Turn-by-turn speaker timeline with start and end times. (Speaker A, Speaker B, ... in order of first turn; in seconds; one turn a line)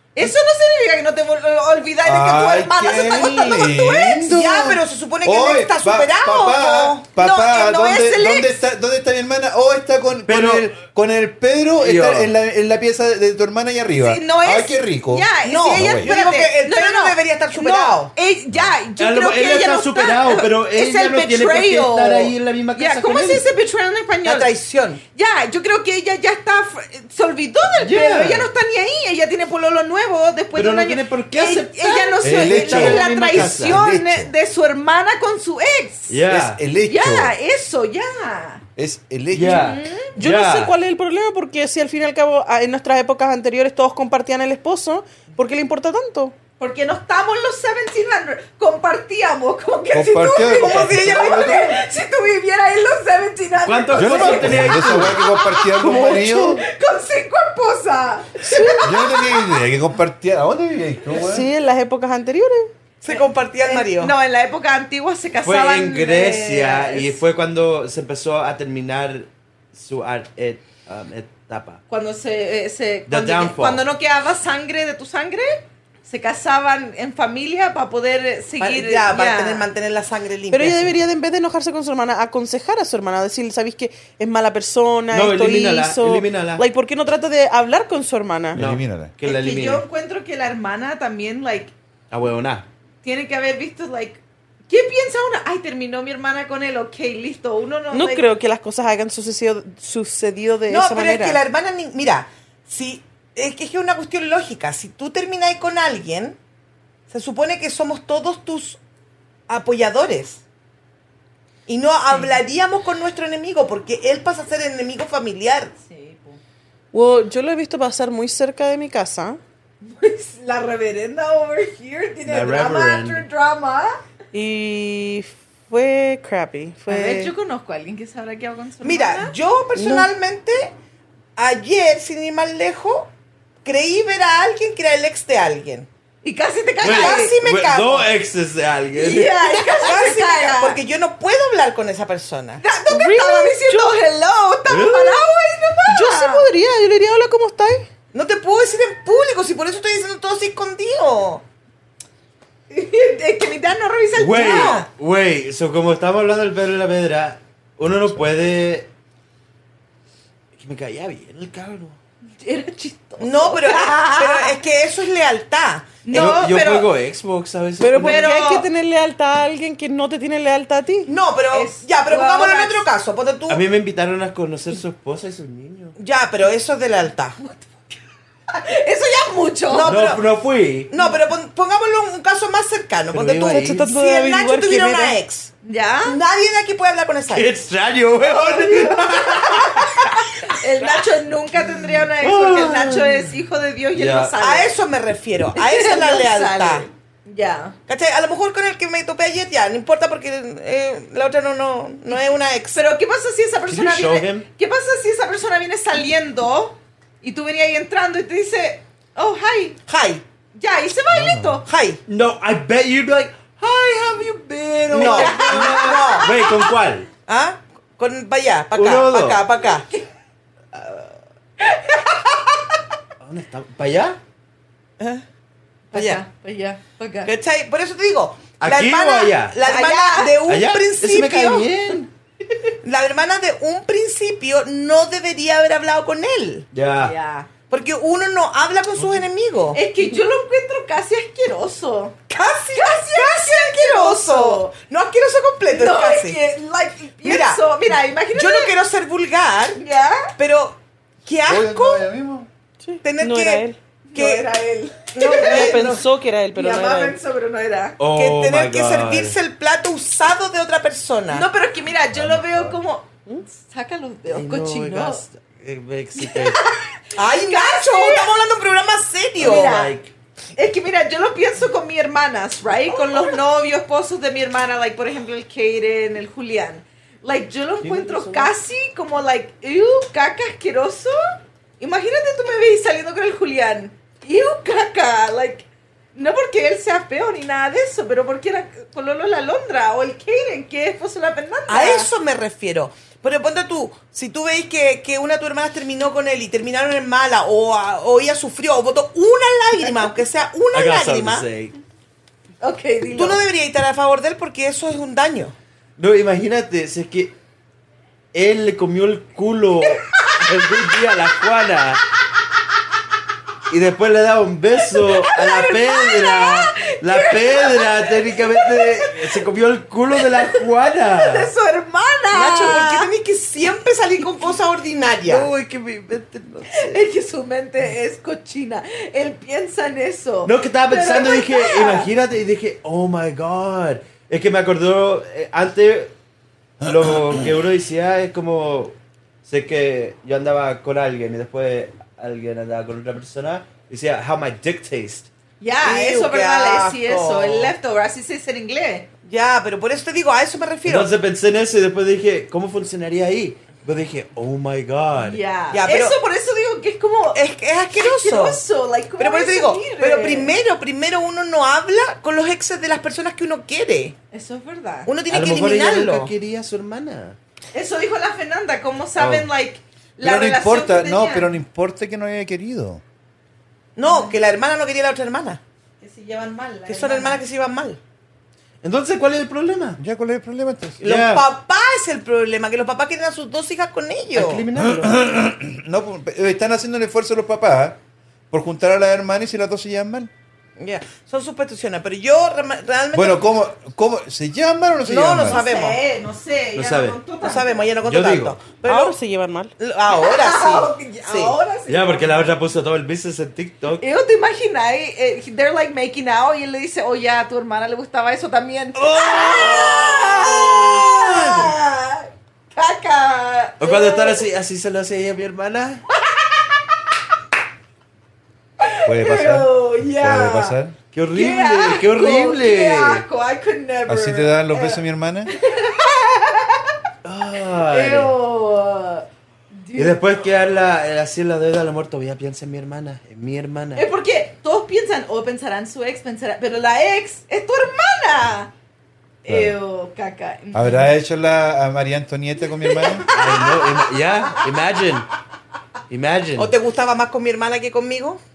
Speaker A: 0.1-4.2
Speaker B: 2.0-16.1
Speaker C: 4.2-7.0
Speaker A: 7.2-8.6
Speaker D: 10.3-10.7
Speaker D: 11.8-12.3
Speaker A: 14.0-24.5
Speaker C: 15.4-18.1
Speaker D: 19.0-23.5
Speaker C: 24.2-25.0
Speaker A: 25.1-36.2
Speaker D: 27.8-28.5
Speaker D: 30.6-33.8
Speaker B: 32.2-34.3
Speaker D: 36.1-36.6
Speaker B: 36.3-37.4
Speaker A: 36.9-38.6
Speaker B: 38.8-39.8
Speaker D: 39.3-40.8
Speaker A: 39.4-40.1
Speaker E: 40.2-46.4
Speaker A: 46.6-59.6
Speaker B: 49.9-51.8
Speaker C: 50.5-51.8
Speaker D: 53.6-55.2
Speaker B: 53.9-56.6
Speaker E: 56.0-56.2
Speaker E: 58.5-58.9
Speaker B: 58.8-61.5
Speaker E: 61.1-62.7
Speaker C: 63.0-64.1
Speaker A: 63.1-67.2
Speaker D: 65.4-71.8
Speaker A: 71.9-79.7
Speaker D: 73.1-73.8
Speaker C: 78.6-81.0
Speaker E: 80.5-88.6
Speaker D: 85.1-86.6
Speaker B: 88.5-89.1
Speaker D: 88.5-89.8
Speaker A: 89.2-91.7
Speaker D: 92.1-92.7
Speaker A: 93.0-98.3
Speaker E: 97.9-101.4
Speaker C: 100.7-106.4
Speaker C: 107.1-108.8
Speaker C: 109.5-110.4
Speaker C: 111.7-115.7
Speaker A: 112.1-112.4
Speaker A: 115.8-116.4
Speaker E: 116.9-119.4
Speaker A: 119.8-124.0
Speaker D: 122.3-123.2
Speaker E: 124.3-127.3
Speaker A: 126.9-129.3
Speaker C: 128.8-130.7
Speaker E: 129.8-130.1
Speaker C: 131.4-133.1
Speaker C: 133.6-135.9
Speaker A: 136.2-137.4
Speaker C: 136.8-138.1
Speaker D: 136.8-139.5
Speaker A: 138.9-140.8
Speaker C: 139.6-142.6
Speaker A: 142.6-146.5
Speaker E: 142.9-144.0
Speaker D: 144.7-145.2
Speaker E: 145.9-147.9
Speaker C: 148.1-151.4
Speaker A: 152.7-154.8
Speaker D: 154.2-158.9
Speaker C: 154.4-154.9
Speaker D: 160.6-162.0
Speaker A: 162.4-164.6
Speaker C: 163.2-166.6
Speaker A: 166.0-166.9
Speaker D: 166.1-168.2
Speaker E: 167.8-171.1
Speaker A: 168.0-168.7
Speaker C: 168.0-168.6
Speaker C: 171.1-173.6
Speaker A: 171.5-172.9
Speaker D: 173.5-175.9
Speaker C: 176.0-177.4
Speaker A: 177.4-177.8
Speaker A: 178.5-180.0
Speaker C: 179.7-180.3
Speaker D: 179.8-180.9
Speaker C: 180.9-185.5
Speaker D: 183.1-183.9
Speaker E: 183.5-185.2
Speaker A: 185.6-186.2
Speaker C: 186.1-187.5
Speaker D: 187.3-190.1
Speaker A: 188.2-194.7
Speaker D: 192.2-193.4
Speaker D: 193.9-194.4
Speaker C: 194.4-196.9
Speaker A: 195.5-197.8
Speaker C: 197.9-202.8
Speaker A: 202.7-209.8
Speaker D: 203.7-204.4
Speaker C: 209.9-210.2
Speaker A: 210.6-211.7
Speaker B: 211.1-211.6
Speaker C: 211.7-212.0
Speaker D: 212.1-217.1
Speaker C: 214.9-216.3
Speaker A: 214.9-216.7
Speaker C: 217.3-219.9
Speaker D: 218.7-219.4
Speaker D: 220.7-221.2
Speaker A: 221.6-222.6
Speaker D: 223.2-224.2
Speaker C: 225.0-225.2
Speaker A: 225.9-227.3
Speaker C: 225.9-226.2
Speaker C: 227.3-231.7
Speaker D: 228.6-229.6
Speaker A: 229.6-230.4
Speaker D: 230.5-232.1
Speaker C: 232.8-236.7
Speaker D: 236.7-237.1
Speaker A: 237.0-237.5
Speaker C: 237.7-239.8
Speaker A: 239.7-242.2
Speaker C: 242.3-246.4
Speaker A: 242.7-244.7
Speaker A: 245.7-248.7
Speaker C: 247.2-247.7
Speaker C: 248.3-249.8
Speaker A: 249.8-250.3
Speaker C: 250.4-252.1
Speaker B: 251.5-252.5
Speaker E: 252.8-253.8
Speaker C: 253.0-254.5
Speaker A: 254.1-258.0
Speaker C: 255.2-256.0
Speaker E: 255.3-257.2
Speaker D: 258.0-259.4
Speaker C: 258.1-261.5
Speaker A: 261.3-265.2
Speaker B: 262.1-262.8
Speaker D: 264.3-266.6
Speaker A: 266.2-268.3
Speaker C: 267.2-269.8
Speaker D: 269.4-270.1
Speaker A: 269.4-270.0
Speaker A: 270.6-281.2
Speaker D: 277.8-278.5
Speaker A: 281.8-292.1
Speaker C: 291.7-301.5
Speaker D: 300.7-301.8
Speaker A: 302.6-303.4
Speaker C: 303.1-305.6
Speaker D: 306.0-307.3
Speaker D: 308.3-312.0
Speaker A: 309.9-310.5
Speaker D: 313.7-321.5
Speaker A: 314.9-319.4
Speaker A: 320.1-323.1
Speaker C: 322.3-325.5
Speaker D: 325.2-327.0
Speaker A: 326.7-332.1
Speaker D: 330.4-336.1
Speaker D: 336.8-338.9
Speaker D: 339.5-345.3
Speaker A: 345.6-349.1
Speaker C: 345.8-347.7
Speaker C: 349.2-351.1
Speaker D: 350.9-355.4
Speaker A: 355.2-357.4
Speaker C: 355.7-356.2
Speaker C: 357.3-358.6
Speaker A: 357.9-360.6
Speaker C: 359.2-364.2
Speaker A: 364.3-365.1
Speaker C: 365.1-366.3
Speaker D: 365.3-367.4
Speaker A: 367.7-371.6
Speaker D: 369.2-369.5
Speaker B: 370.2-373.0
Speaker C: 374.0-375.6
Speaker A: 374.0-374.3
Speaker A: 376.0-377.4
Speaker C: 376.9-378.0
Speaker D: 378.8-380.0
Speaker B: 380.0-381.0
Speaker C: 381.0-384.6
Speaker D: 381.0-381.5
Speaker D: 384.3-385.1
Speaker B: 384.8-388.0
Speaker B: 388.5-390.3
Speaker C: 390.8-393.5
Speaker B: 393.1-395.6
Speaker C: 395.1-396.0
Speaker A: 395.4-397.9
Speaker D: 396.8-397.2
Speaker C: 397.4-399.2
Speaker D: 398.0-398.6
Speaker E: 398.8-399.7
Speaker C: 399.8-401.6
Speaker A: 400.1-402.5
Speaker D: 401.9-404.0
Speaker A: 404.0-414.4
Speaker D: 409.0-411.7
Speaker D: 413.8-416.1
Speaker A: 416.3-416.7
Speaker A: 418.8-420.8
Speaker B: 419.1-421.0
Speaker D: 421.1-423.3
Speaker A: 421.3-427.0
Speaker B: 424.1-425.5
Speaker D: 427.2-428.4
Speaker A: 427.9-430.2
Speaker D: 430.0-434.1
Speaker A: 434.0-438.7
Speaker A: 439.4-441.1
Speaker B: 439.5-439.8
Speaker B: 440.7-443.3
Speaker A: 442.8-444.1
Speaker D: 443.3-445.3
Speaker D: 446.1-446.7
Speaker C: 446.6-448.4